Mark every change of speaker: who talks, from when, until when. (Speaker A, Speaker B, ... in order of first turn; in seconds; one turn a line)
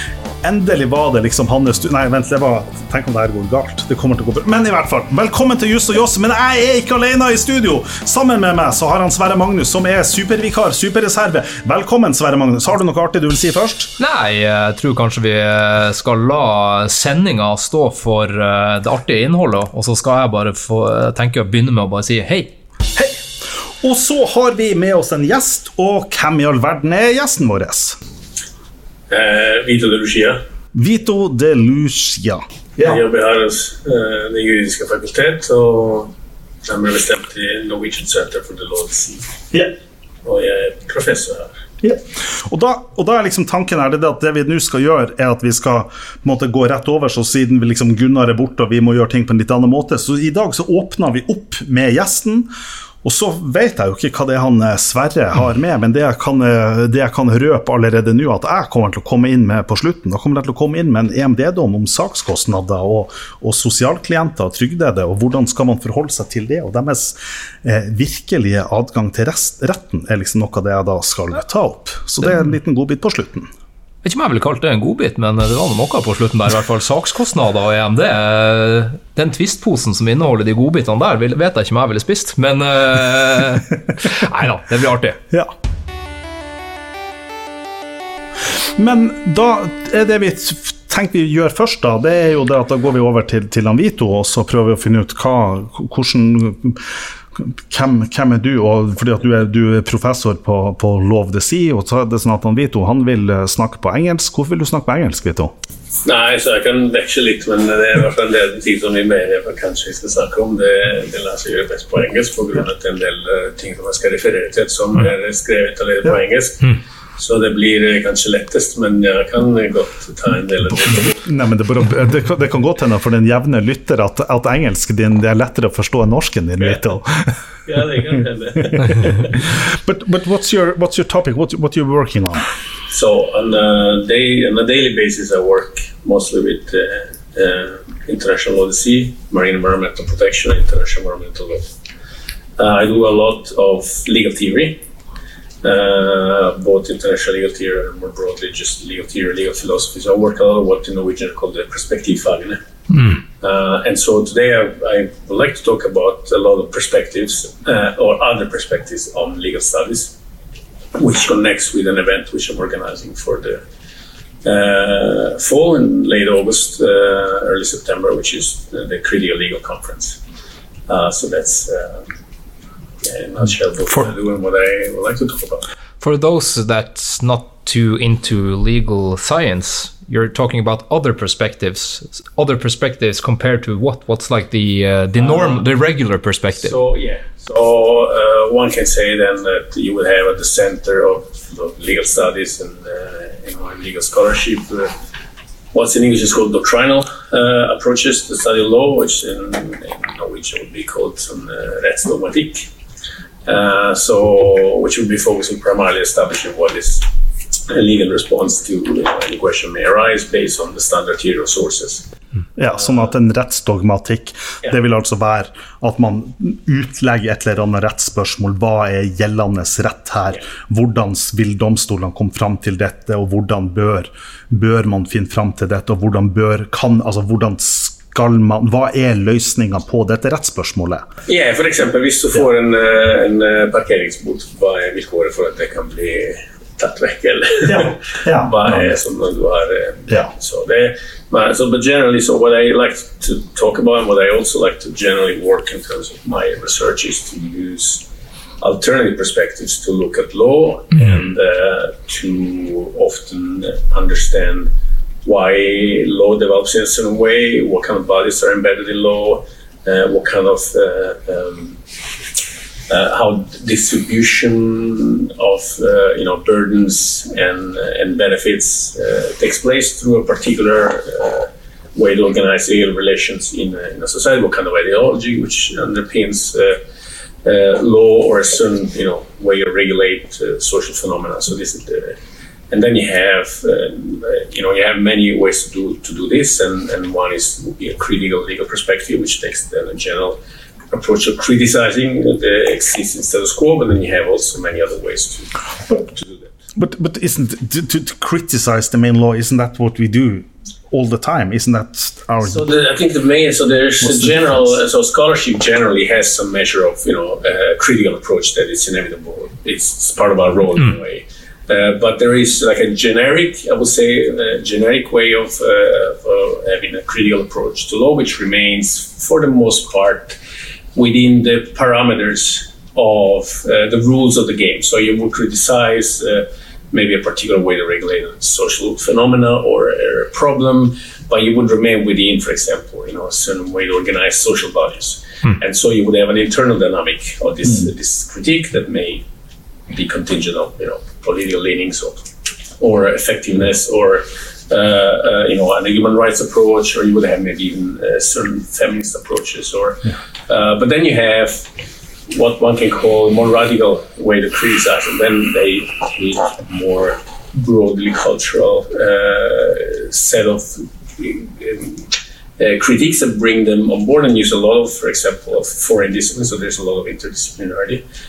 Speaker A: 0.4-13.9
Speaker B: 14.0-22.5
Speaker A: 22.9-28.0
Speaker C: 29.1-30.4
Speaker A: 30.7-33.0
Speaker C: 32.8-36.1
Speaker C: 36.6-39.4
Speaker C: 40.2-41.6
Speaker A: 41.8-52.5
Speaker A: 53.0-73.5
Speaker B: 74.0-85.2
Speaker A: 88.8-105.5
Speaker C: 106.0-121.3
Speaker A: 121.2-127.3
Speaker C: 127.7-129.4
Speaker A: 128.8-132.5
Speaker C: 132.9-141.7
Speaker C: 142.6-144.8
Speaker C: 145.6-152.6
Speaker C: 153.2-160.2
Speaker C: 160.9-163.6
Speaker C: 164.4-170.2
Speaker C: 170.9-172.1
Speaker C: 173.0-175.7
Speaker B: 176.0-186.8
Speaker C: 185.2-185.6
Speaker C: 186.6-194.9
Speaker C: 195.7-202.7
Speaker C: 203.5-207.1
Speaker C: 207.7-212.1
Speaker A: 212.6-231.1
Speaker C: 231.3-248.1
Speaker A: 237.7-238.5
Speaker C: 248.6-254.7
Speaker C: 255.2-261.8
Speaker C: 262.9-276.8
Speaker C: 277.4-282.2
Speaker C: 282.7-290.4
Speaker C: 290.9-296.5
Speaker A: 296.8-302.7
Speaker C: 302.4-320.4
Speaker C: 320.9-339.2
Speaker C: 339.9-351.7
Speaker C: 352.3-368.0